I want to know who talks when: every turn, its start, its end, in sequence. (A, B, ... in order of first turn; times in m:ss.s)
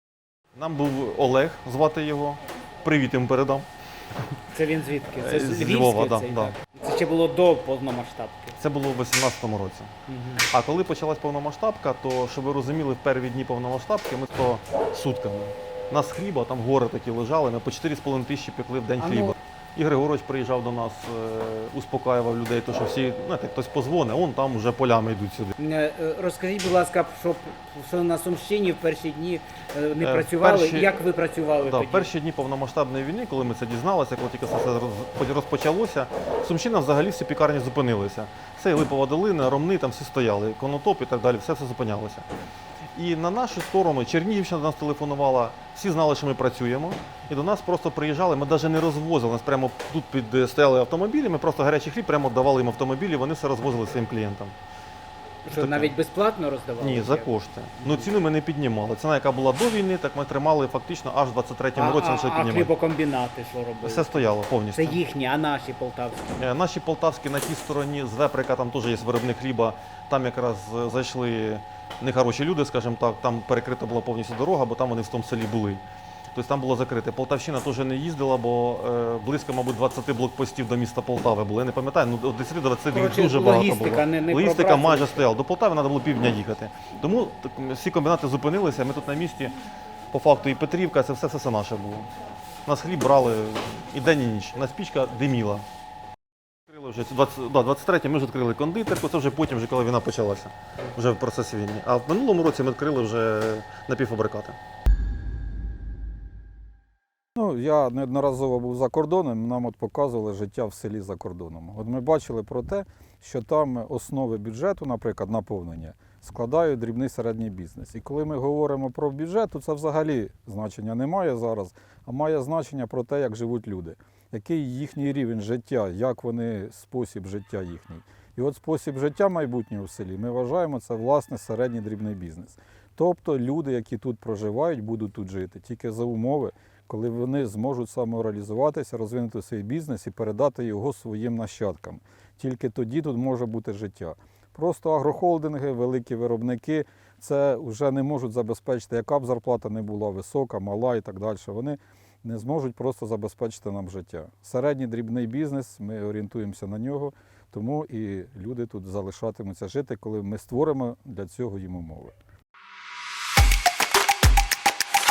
0:00.5-0:03.7 A
0:04.5-0:08.5 B
0:05.1-0:06.5 A
0:08.6-0:09.9 A
0:10.1-0:10.4 B
0:10.4-0:25.5 A
0:19.0-0:19.3 B
0:25.6-0:32.1 B
0:30.0-0:30.9 A
0:31.6-0:42.2 A
0:42.9-0:54.5 A
0:55.4-0:57.3 B
0:55.5-0:55.9 A
0:56.8-1:02.7 A
1:01.8-1:06.4 B
1:03.8-1:05.0 A
1:06.4-1:15.8 A
1:16.3-1:29.6 A
1:22.9-1:25.2 B
1:30.1-1:32.1 A
1:32.6-1:35.6 A
1:36.7-1:44.6 A
1:47.4-2:42.1 C